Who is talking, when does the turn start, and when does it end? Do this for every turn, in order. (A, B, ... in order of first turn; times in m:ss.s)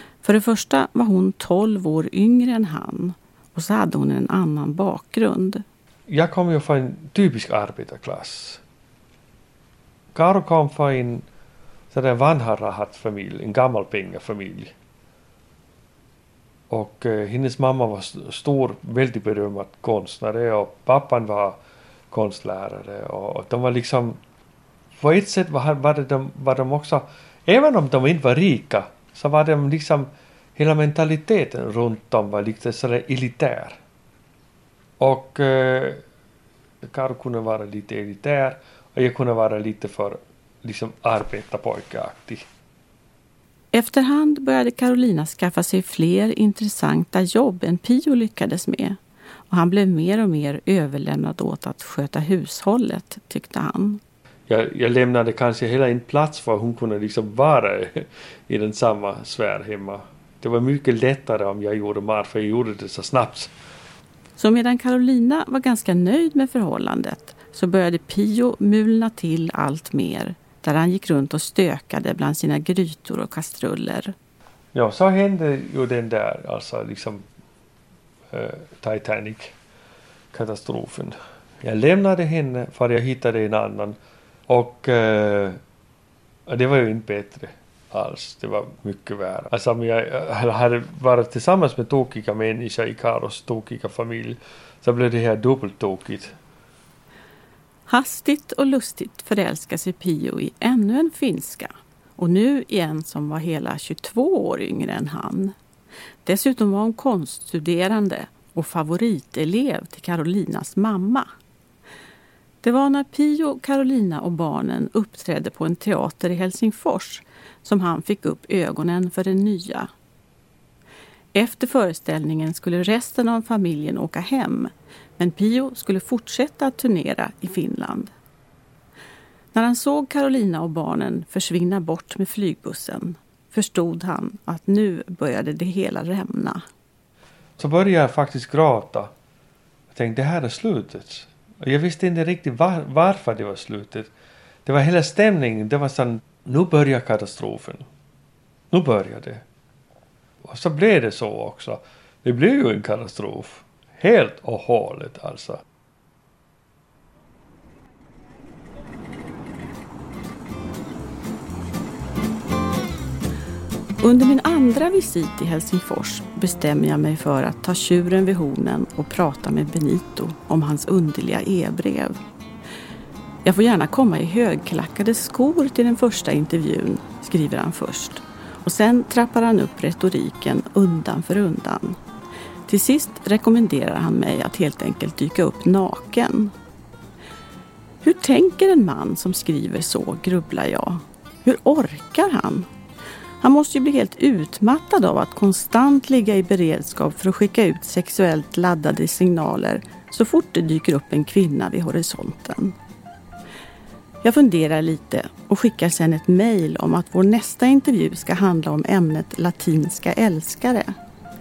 0:00.2-0:05.6 A
0:06.1-0:08.6 B
0:10.2-0:11.2 B
0:11.9-0:14.7 B
0:16.7-0:21.6 B
0:22.1-0:24.2 B
0:25.0-0:33.8 B
0:35.0-0:36.0 B
0:36.8-0:42.5 B
0:43.7-0:49.0 A
0:49.5-0:54.0 A
0:54.5-1:03.5 B
1:04.4-1:14.2 A
1:14.7-1:17.2 B
1:18.3-1:19.6 B
1:20.3-1:24.0 B
1:24.5-1:25.6 B
1:26.5-1:36.4 B
1:37.9-1:45.6 A
1:46.2-1:51.3 A
1:52.6-1:59.9 A
2:01.4-2:08.1 A
2:09.5-2:16.6 A
2:17.6-2:19.1 B
2:19.9-2:24.1 B
2:24.6-2:27.9 B
2:28.7-2:29.4 B
2:30.4-2:35.6 B
2:44.0-2:52.2 A
2:53.4-3:02.0 A
3:02.7-3:06.5 A
3:08.0-3:12.7 A
3:13.4-3:22.8 A
3:24.2-3:30.9 A